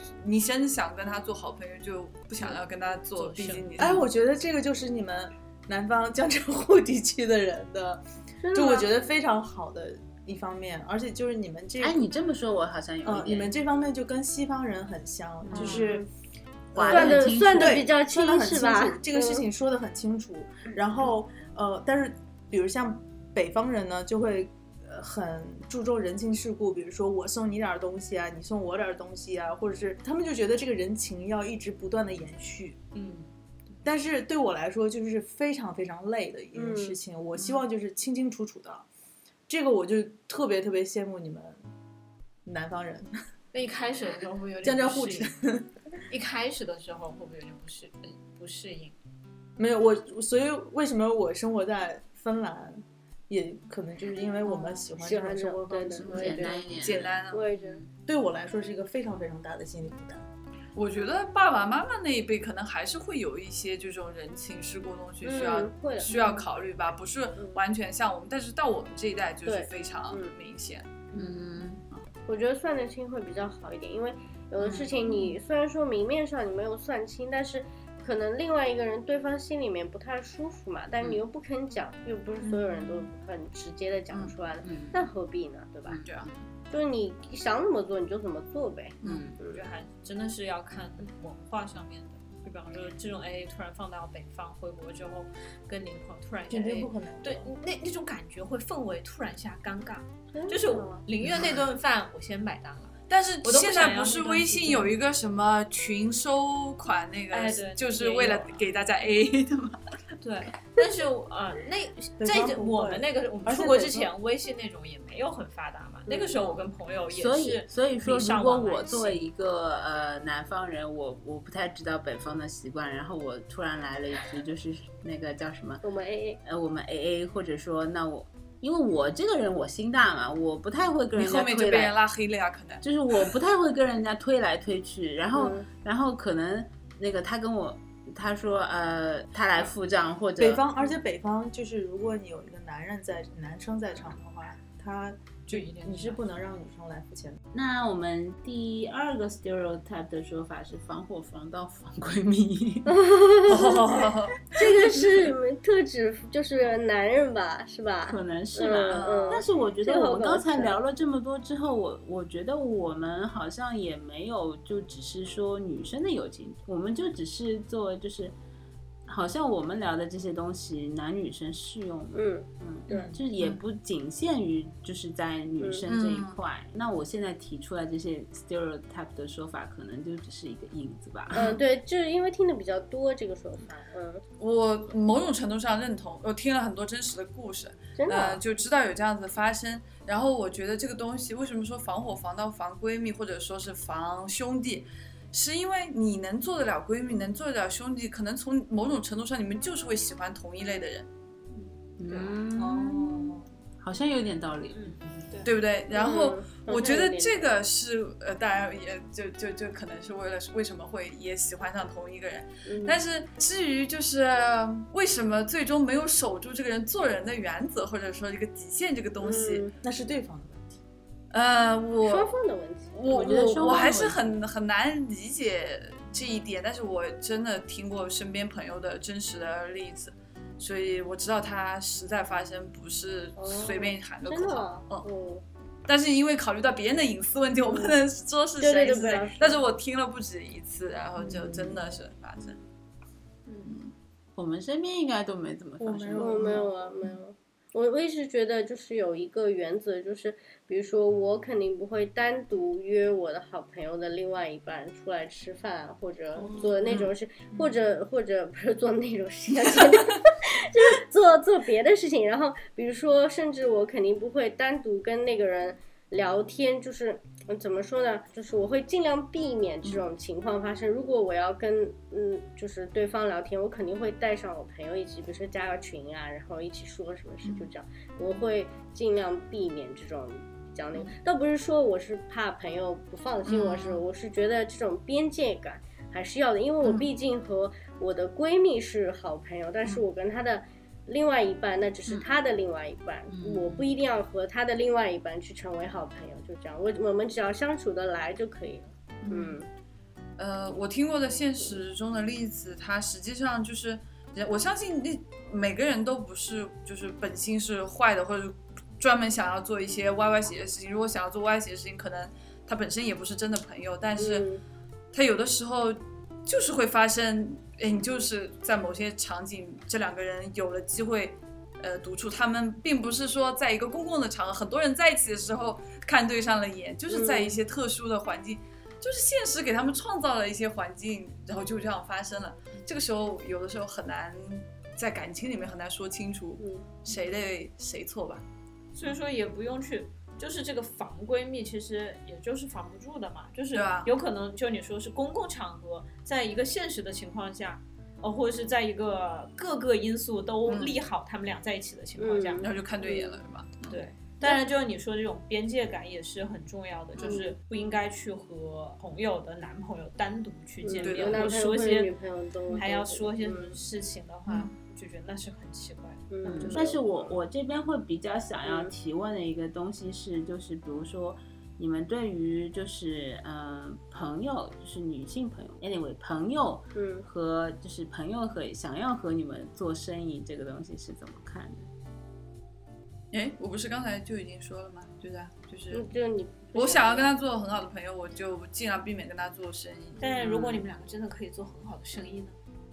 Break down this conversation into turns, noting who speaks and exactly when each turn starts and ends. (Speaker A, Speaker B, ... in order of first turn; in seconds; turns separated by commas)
Speaker A: 0.2-4.0, Speaker B: 3.1-4.0, Speaker C: 3.8-12.1, Speaker D: 8.4-8.9, Speaker E: 11.8-13.5, Speaker C: 13.0-16.1, Speaker E: 15.5-15.8, Speaker D: 15.6-16.1, Speaker C: 16.7-32.8, Speaker E: 16.7-17.9, Speaker D: 16.9-19.4, Speaker B: 32.9-33.3, Speaker C: 33.8-38.9, Speaker D: 36.5-37.0, Speaker C: 39.5-41.6, Speaker C: 42.4-43.1, Speaker B: 43.5-45.3, Speaker C: 44.6-45.7, Speaker B: 46.1-49.0, Speaker C: 49.6-56.1, Speaker D: 54.5-57.8, Speaker A: 56.0-57.5, Speaker E: 56.0-57.9, Speaker C: 58.0-60.2, Speaker A: 60.7-70.9, Speaker D: 65.2-66.3, Speaker D: 69.5-70.3, Speaker E: 71.1-71.8, Speaker D: 72.3-86.0, Speaker E: 74.6-74.9, Speaker A: 82.4-83.0, Speaker E: 84.6-85.0, Speaker E: 85.8-86.5, Speaker A: 86.0-86.3, Speaker D: 86.7-89.6, Speaker A: 89.0-89.3, Speaker E: 89.0-89.4, Speaker B: 89.5-104.9, Speaker C: 96.5-97.5, Speaker D: 100.3-101.0, Speaker A: 103.1-109.8, Speaker B: 107.3-108.6, Speaker B: 110.2-119.2, Speaker C: 112.2-114.1, Speaker D: 116.1-116.6, Speaker E: 117.1-125.8, Speaker D: 125.8-126.4, Speaker E: 126.4-131.9, Speaker A: 131.1-132.8, Speaker E: 132.8-140.6, Speaker D: 135.3-135.7, Speaker C: 140.4-147.4, Speaker B: 145.5-146.2, Speaker E: 147.5-153.0, Speaker D: 152.9-160.8, Speaker A: 153.4-155.1, Speaker E: 158.1-168.3, Speaker A: 158.9-159.4, Speaker E: 169.1-181.5, Speaker D: 172.1-173.2, Speaker D: 175.6-175.8, Speaker A: 175.9-176.4, Speaker D: 181.3-184.2, Speaker A: 184.4-201.1, Speaker D: 187.9-188.4, Speaker E: 202.0-205.2, Speaker B: 202.1-202.3, Speaker C: 202.6-203.4, Speaker B: 204.7-205.5, Speaker A: 205.4-219.7, Speaker D: 205.9-207.5, Speaker D: 212.7-213.0, Speaker D: 219.2-219.7, Speaker C: 219.8-220.8, Speaker A: 221.3-222.3, Speaker D: 222.0-223.0, Speaker A: 222.9-235.1, Speaker E: 223.1-224.3, Speaker D: 233.4-235.4, Speaker A: 235.8-242.6, Speaker D: 237.7-237.9, Speaker D: 238.6-239.6, Speaker A: 243.5-243.9, Speaker E: 244.3-246.6, Speaker C: 245.8-246.9, Speaker D: 246.2-299.6, Speaker A: 256.5-257.7, Speaker A: 259.7-260.0, Speaker A: 277.4-277.7, Speaker A: 283.5-283.9, Speaker A: 293.3-293.8, Speaker A: 299.2-299.6, Speaker A: 300.4-314.5, Speaker D: 314.2-314.6, Speaker A: 315.1-338.4, Speaker D: 327.1-327.6, Speaker D: 336.6-336.9, Speaker B: 338.9-352.6, Speaker A: 343.7-344.1, Speaker A: 350.6-351.0, Speaker D: 352.2-353.4, Speaker A: 352.6-354.0, Speaker B: 353.9-362.1, Speaker A: 357.2-357.4, Speaker D: 357.2-357.5, Speaker D: 360.8-363.8, Speaker A: 361.0-361.7, Speaker B: 362.7-366.7, Speaker A: 364.5-364.7, Speaker D: 366.3-367.4, Speaker E: 366.4-381.9, Speaker D: 368.6-368.9, Speaker D: 376.9-377.2, Speaker A: 383.3-386.1, Speaker D: 385.9-387.3, Speaker A: 386.7-390.4, Speaker B: 390.2-392.6, Speaker E: 390.4-390.8